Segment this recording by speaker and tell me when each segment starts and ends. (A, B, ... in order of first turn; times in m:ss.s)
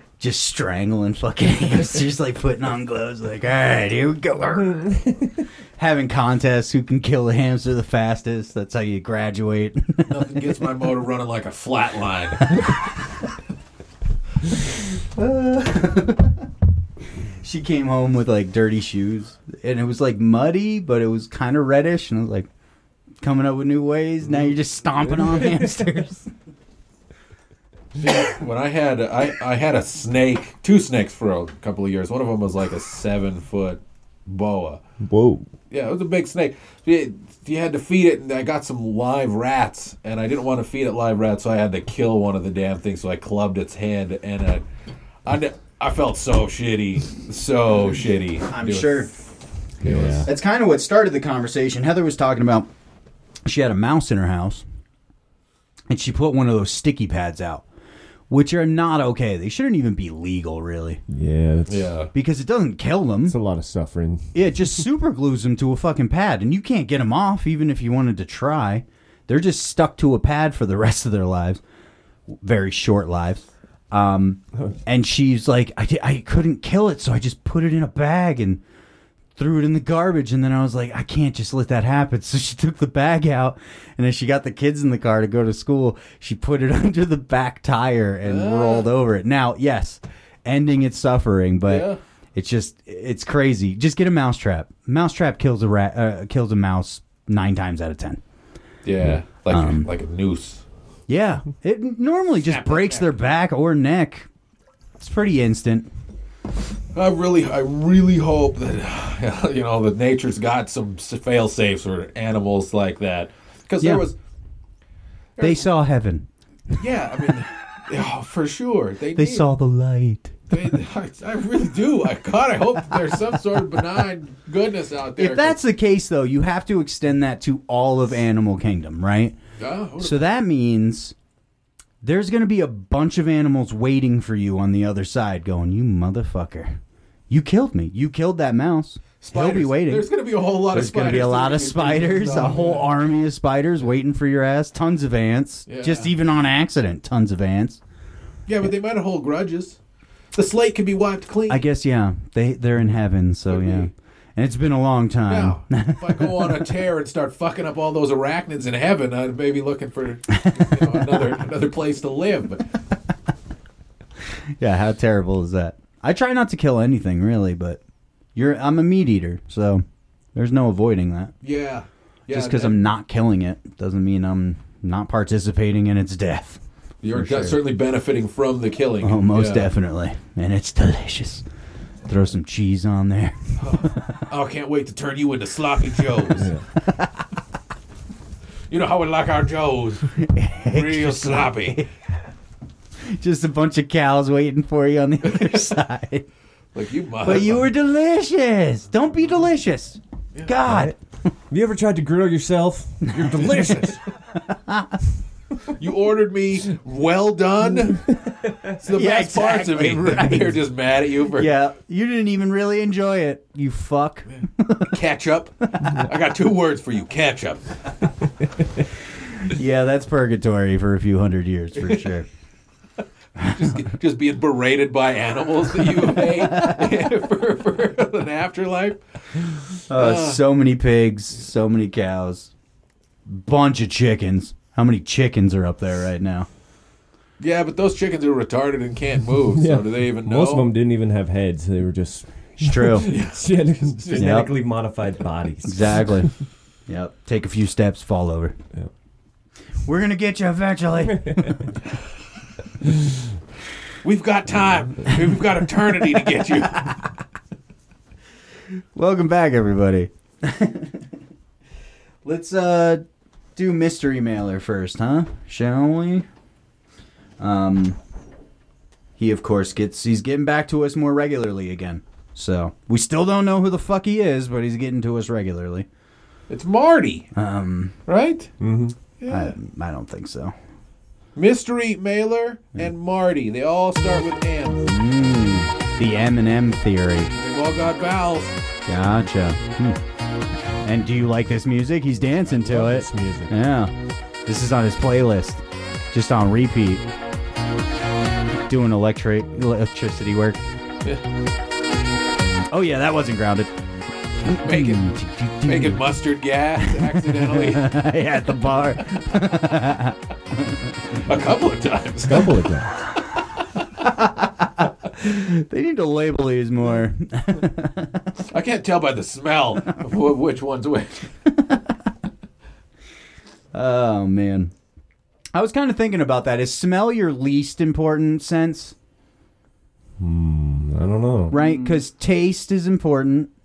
0:00.2-0:05.0 A
0:05.8-0:10.1 A
0:10.0-0:12.7 B
0:15.0-0:16.5 A
0:17.4-0:22.5 A
0:23.2-0:26.3 A
0:25.2-0:25.6 C
0:28.0-0:34.8 B
0:35.0-0:35.5 C
0:35.7-0:44.6 B
0:45.2-0:49.1 B
0:48.5-0:49.1 A
0:49.8-0:50.3 B
0:49.8-0:50.3 C
0:50.2-0:52.7 A
0:53.4-0:54.6 A
0:55.9-0:57.6 A
0:58.3-1:01.0 A
1:01.1-1:01.9 C
1:01.7-1:02.1 B
1:02.1-1:03.4 A
1:03.2-1:04.4 C
1:04.3-1:11.6 A
1:12.3-1:18.6 A
1:19.4-1:38.2 A
1:28.2-1:28.9 B
1:31.6-1:32.0 B
1:38.8-1:40.6 B
1:39.5-1:39.9 A
1:41.1-1:44.3 A
1:42.4-1:43.2 B
1:45.0-1:45.9 A
1:46.9-1:54.2 B
1:53.8-1:54.1 A
1:55.4-1:55.7 B
1:55.4-1:56.3 A
1:56.8-1:59.5 B
1:59.1-2:00.3 A
2:00.5-2:05.6 B
2:05.2-2:09.4 A
2:09.6-2:10.3 B
2:10.0-2:11.1 A
2:12.0-2:20.1 A
2:19.2-2:22.9 B
2:20.6-2:27.8 A
2:25.7-2:26.1 B
2:28.5-2:29.8 B
2:30.3-2:31.6 B
2:31.5-2:36.7 A
2:33.5-2:33.9 B
2:35.3-2:42.7 B
2:40.6-2:41.0 A
2:44.6-2:47.8 A
2:48.3-2:51.3 A
2:51.4-2:52.8 B
2:52.3-2:57.6 A
2:57.0-2:59.7 B
2:59.0-3:01.4 A
3:02.1-3:03.4 A
3:03.6-3:06.5 B
3:06.4-3:06.6 C
3:06.8-3:07.2 A
3:08.7-3:10.1 B
3:10.2-3:11.9 A
3:10.7-3:11.9 B
3:13.1-3:16.2 A
3:16.7-3:17.7 B
3:17.2-3:21.0 A
3:20.6-3:21.0 C
3:21.5-3:24.0 C
3:23.2-3:23.9 B
3:24.3-3:25.0 A
3:25.7-3:28.0 B
3:28.8-3:31.5 B
3:28.9-3:30.6 A
3:31.3-3:34.9 A
3:34.9-3:37.6 B
3:39.4-3:42.2 A
3:43.4-3:49.0 B
3:46.5-3:46.8 A
3:49.9-3:52.5 A
3:49.9-3:50.4 B
3:53.3-3:56.5 A
3:57.4-4:00.7 B
3:59.5-4:06.3 C
4:02.6-4:03.1 A
4:03.0-4:04.4 B
4:04.2-4:04.5 A
4:05.6-4:06.3 A
4:06.9-4:08.6 A
4:09.8-4:11.7 A
4:14.0-4:16.9 B
4:18.9-4:21.1 A
4:22.2-4:23.0 A
4:23.6-4:26.3 A
4:27.4-4:28.0 A
4:29.2-4:35.9 A
4:36.5-4:37.3 B
4:37.3-4:38.0 A
4:38.1-4:38.5 B
4:38.6-4:38.9 C
4:39.2-4:39.5 B
4:39.3-4:40.5 A
4:41.4-4:44.8 B
4:44.9-4:47.3 A
4:47.3-4:48.6 B
4:48.9-4:50.0 A
4:50.8-4:53.9 A
4:52.4-4:53.5 C
4:54.4-4:57.0 A
4:58.7-5:00.6 A
5:02.7-5:03.7 A
5:04.4-5:06.0 A
5:04.6-5:05.0 B
5:05.6-5:08.0 B
5:06.8-5:11.2 A
5:11.2-5:12.5 B
5:12.2-5:12.9 C
5:14.0-5:18.3 A
5:18.5-5:21.3 B
5:23.7-5:24.7 A
5:25.5-5:28.9 A
5:30.2-5:31.6 C
5:31.5-5:33.5 A
5:31.5-5:32.0 B